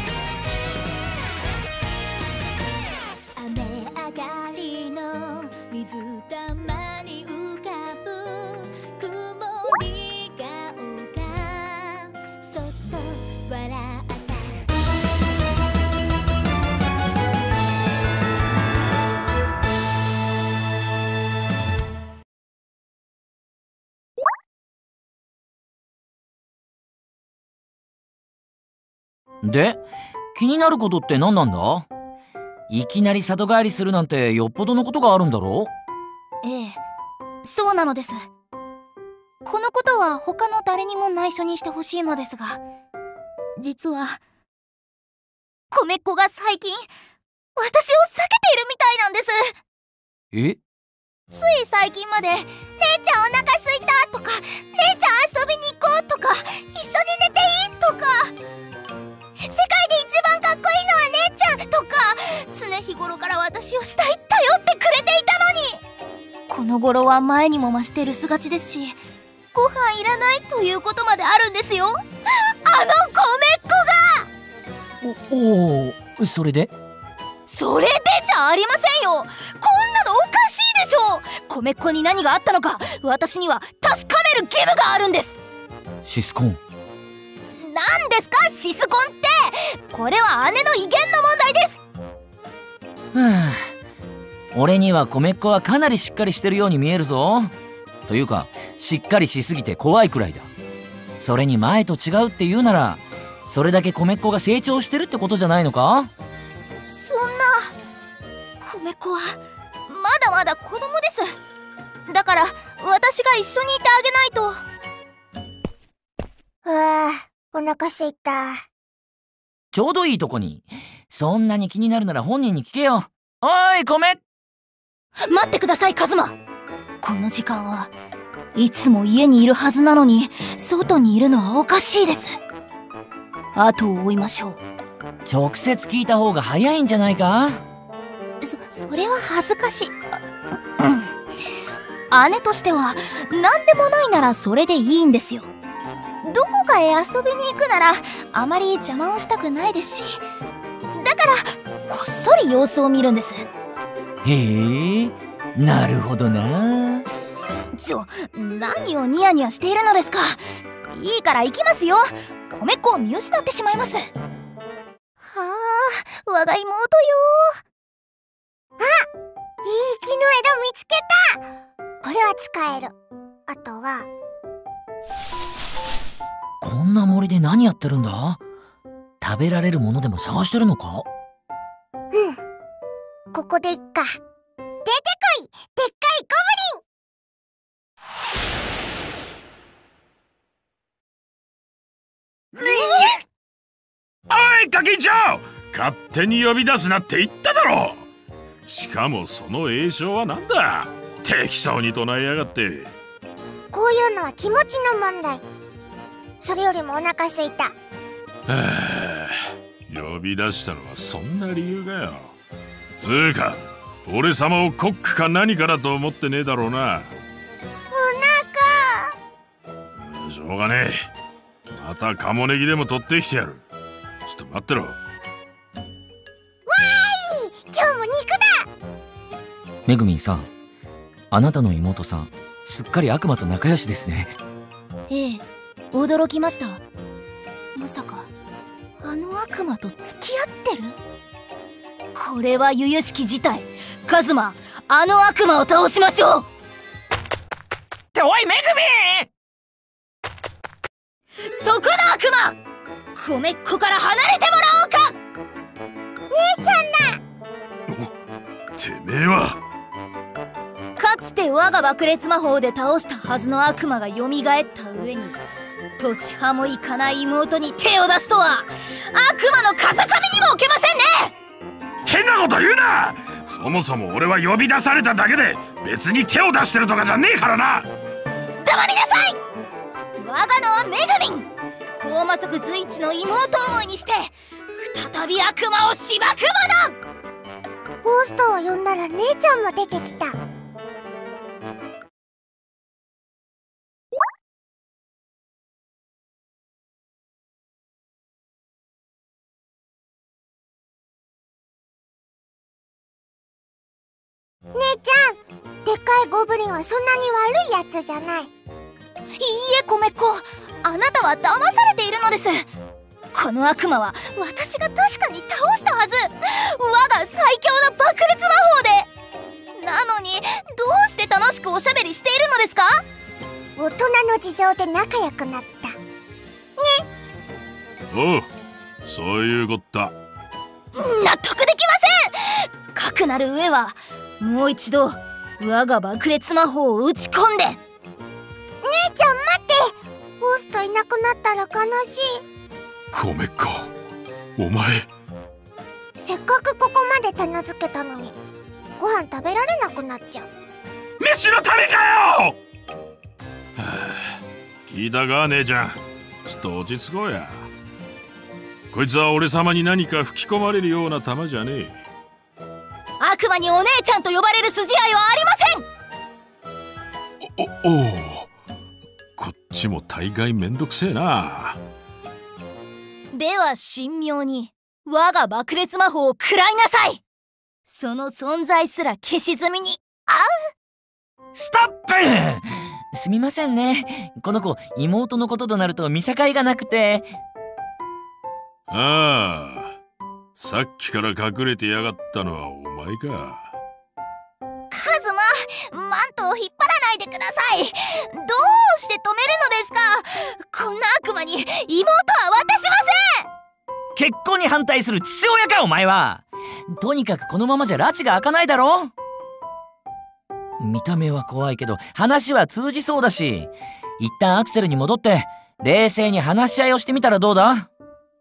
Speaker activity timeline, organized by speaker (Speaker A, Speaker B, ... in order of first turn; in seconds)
Speaker A: 3.4-14.6, 36.4-36.8, 37.4-38.2, 39.4-42.6, 43.6-44.2, 45.7-46.9, 47.5-49.5, 51.3-58.3, 59.4-65.8, 66.5-69.0, 69.5-74.3, 77.5-85.4, 87.5-91.8, 106.9-107.7, 108.6-111.3, 112.1-114.6, 125.2-126.3, 127.0-127.9, 128.5-132.3, 133.5-134.6, 138.4-140.0, 140.8-141.1, 142.1-145.5, 146.2-150.2, 150.9-153.4, 157.7-164.1, 165.2-167.6, 235.1-236.8, 237.8-238.3, 239.0-241.0, 242.1-246.5, 251.4-252.6, 253.1-255.2, 261.0-265.4, 266.0-271.3, 278.6-279.4, 280.2-287.0, 309.4-312.7, 313.3-319.1, 319.8-323.0, 330.9-337.8, 363.2-365.9, 373.3-377.2, 377.9-380.5, 394.9-403.5
Speaker B: 29.4-29.8, 30.3-31.9, 32.7-35.7, 50.3-50.6, 75.0-76.7, 86.0-86.6, 93.1-93.7, 94.5-97.5, 98.1-100.5, 101.2-106.1, 119.7-124.2, 135.2-137.6, 154.2-157.1, 176.6-178.4, 179.2-181.1, 229.8-230.5, 231.3-234.3, 248.1-249.3, 381.5-387.3, 404.1-409.1, 410.8-417.9
Speaker C: 116.6-118.6, 168.8-169.1, 169.6-171.4, 172.0-172.9, 173.5-174.1, 182.1-182.4, 183.3-184.2, 184.8-186.8, 203.7-205.4, 206.4-207.7, 217.9-219.1, 226.7-228.7, 256.3-257.2, 288.0-290.4, 304.7-308.5, 323.8-325.9, 338.8-342.4, 346.2-348.4, 349.0-350.5
Speaker D: 192.6-193.2, 194.3-198.1, 198.6-202.9, 208.5-212.3, 213.0-217.1, 220.0-221.0, 221.7-223.6, 224.2-225.0, 258.8-259.6, 272.1-277.9, 328.1-328.5, 329.0-330.1, 343.1-343.9, 344.6-345.1, 351.2-352.6, 353.8-357.7, 358.9-362.0, 367.4-368.5, 369.4-371.8, 388.9-389.9, 390.6-393.7